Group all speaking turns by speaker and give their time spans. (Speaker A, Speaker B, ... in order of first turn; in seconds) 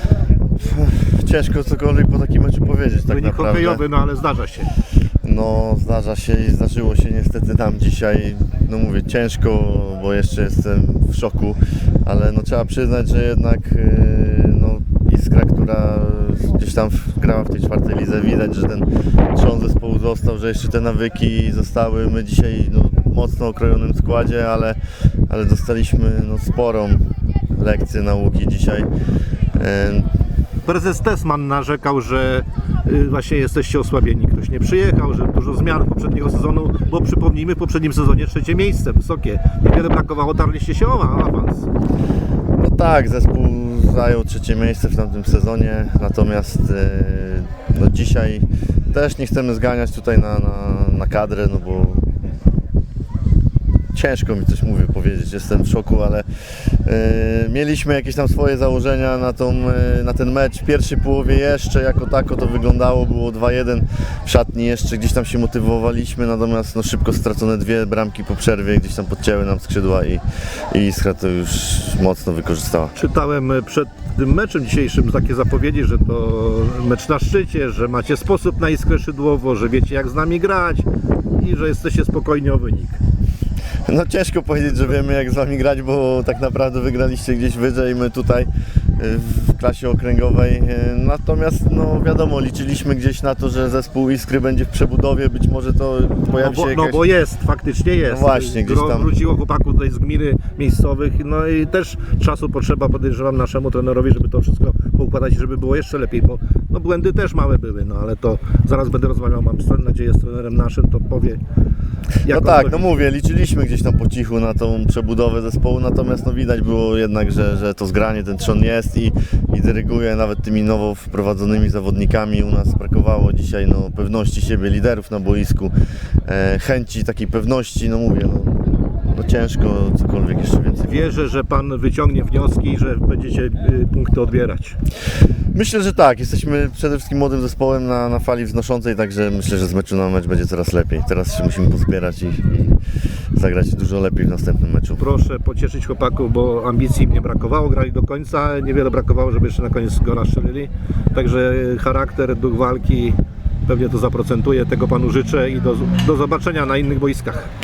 Speaker A: 0.6-3.8, 5.2-24.8, 25.3-27.0, 27.6-28.9, 29.6-30.1, 42.6-52.0, 53.9-56.2, 56.9-72.9, 83.9-97.0, 98.1-99.1, 112.3-125.7, 126.3-128.6, 129.1-131.1, 135.6-142.8, 143.4-145.1
Speaker B: 3.1-4.7, 30.6-41.7, 73.0-80.9, 81.4-83.0, 96.4-111.4, 112.2-112.9, 130.8-134.8, 145.0-153.2, 153.7-157.5